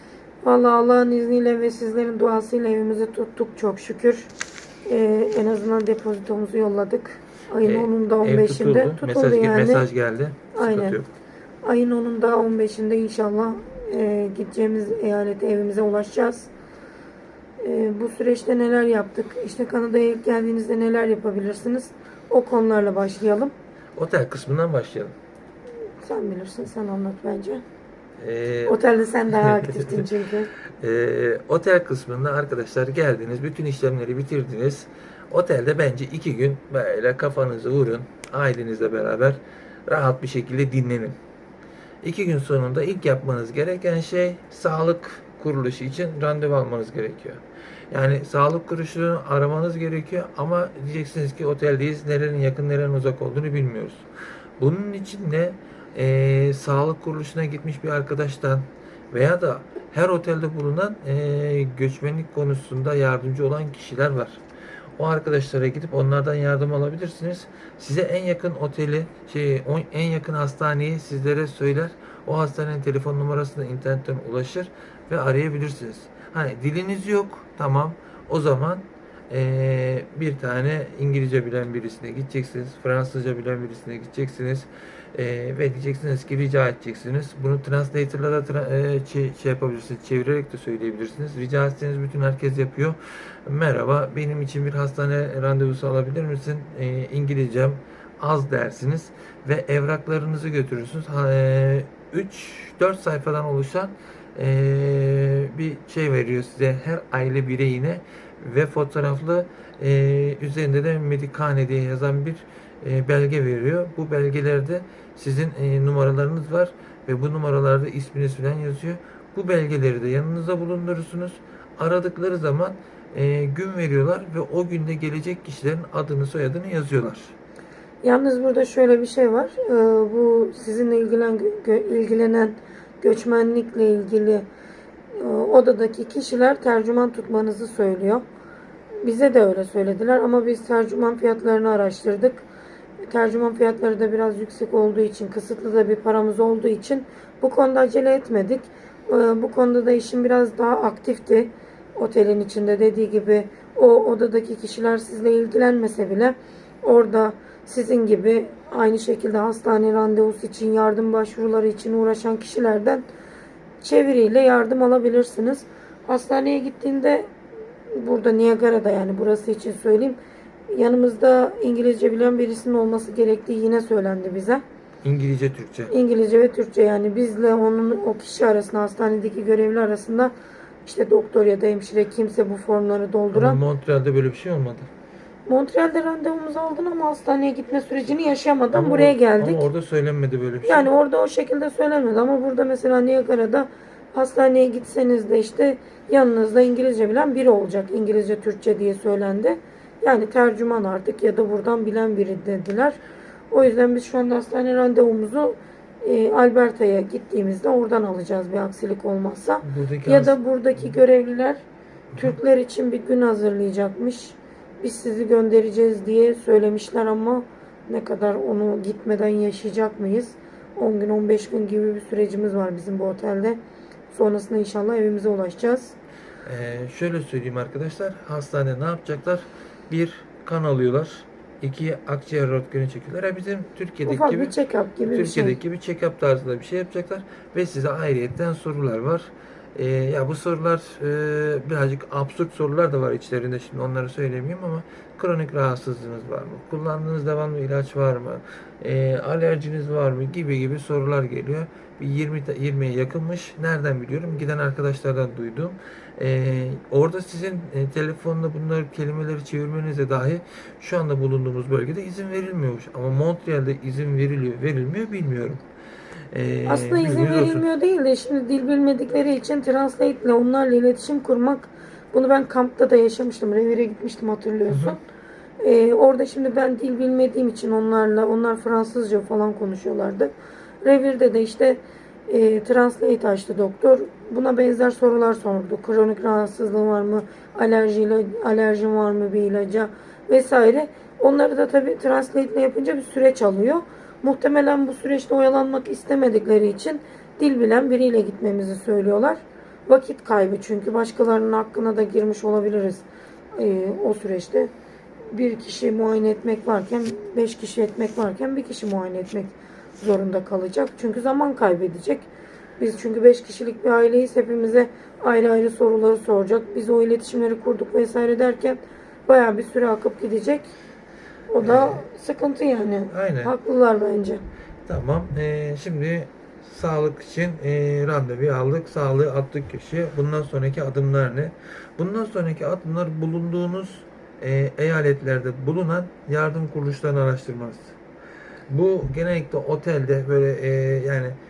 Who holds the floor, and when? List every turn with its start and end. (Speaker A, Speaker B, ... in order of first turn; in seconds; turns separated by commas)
Speaker A: 0.4-4.3, Speaker A: 4.8-9.9, Speaker B: 7.6-11.1, Speaker A: 10.5-11.0, Speaker A: 11.6-16.5, Speaker A: 17.6-23.5, Speaker B: 23.9-25.1, Speaker A: 25.9-27.6, Speaker B: 28.2-28.8, Speaker A: 28.7-30.5, Speaker B: 29.3-30.1, Speaker B: 30.8-41.2, Speaker B: 42.0-54.0, Speaker B: 54.6-64.4, Speaker B: 65.0-127.3, Speaker A: 128.0-134.5, Speaker A: 135.1-138.2, Speaker A: 139.0-142.5, Speaker A: 143.0-163.1, Speaker A: 163.8-167.3, Speaker A: 167.9-170.2, Speaker A: 170.7-174.6, Speaker B: 175.0-175.9, Speaker A: 175.9-183.6, Speaker B: 183.3-184.9, Speaker A: 185.5-189.6, Speaker B: 188.7-190.9, Speaker A: 190.7-203.0, Speaker A: 203.5-211.6, Speaker B: 209.6-210.9, Speaker A: 212.2-225.9, Speaker B: 226.4-234.5, Speaker A: 234.1-235.6, Speaker B: 235.0-265.6, Speaker B: 266.3-267.6, Speaker A: 266.6-275.0, Speaker A: 275.6-280.3, Speaker A: 280.8-304.7, Speaker A: 305.3-320.7, Speaker A: 321.5-324.4, Speaker B: 321.6-322.0, Speaker B: 323.1-323.5, Speaker B: 324.9-338.0, Speaker B: 338.7-341.4